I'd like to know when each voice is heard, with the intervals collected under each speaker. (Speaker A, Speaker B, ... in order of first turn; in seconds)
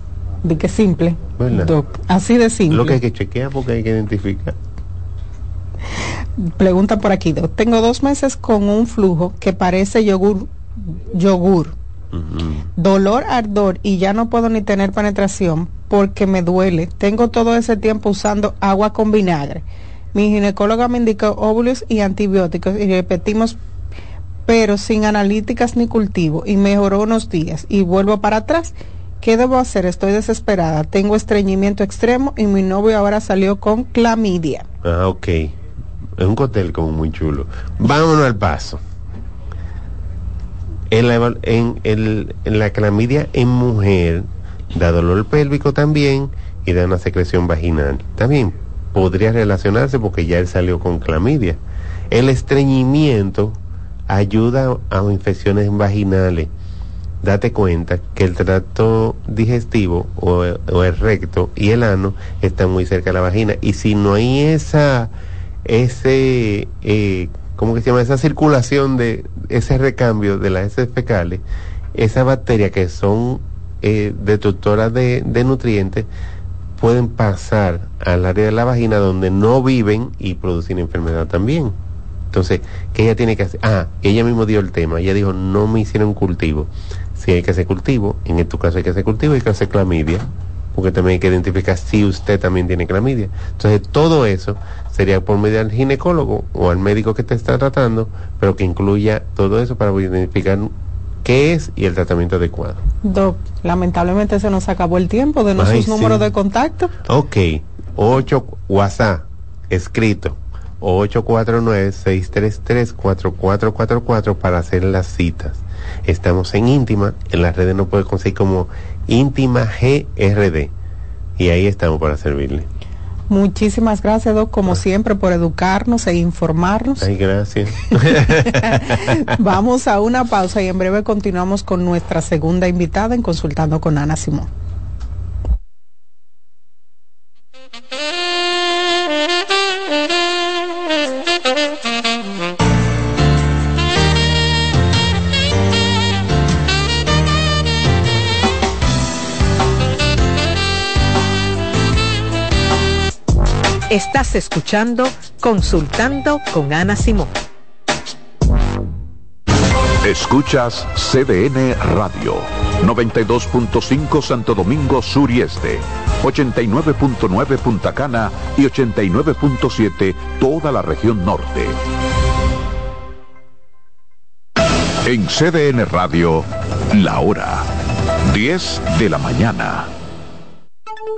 Speaker A: 0.4-3.0, 6.4-11.7, 12.8-23.6, 24.5-34.6, 103.0-106.9, 123.3-127.0, 128.6-134.5
Speaker B: 1.4-1.7, 2.7-4.5, 12.1-12.7, 34.8-35.5, 36.2-38.8, 40.9-51.6, 52.1-56.5, 57.2-65.1, 65.6-71.4, 71.9-76.1, 76.8-81.8, 82.3-100.7, 101.2-102.8, 105.5-106.3, 107.0-120.7, 121.4-122.7, 127.0-129.1
Speaker C: 153.9-157.3
Speaker D: 160.0-171.8, 175.0-177.7, 178.2-179.9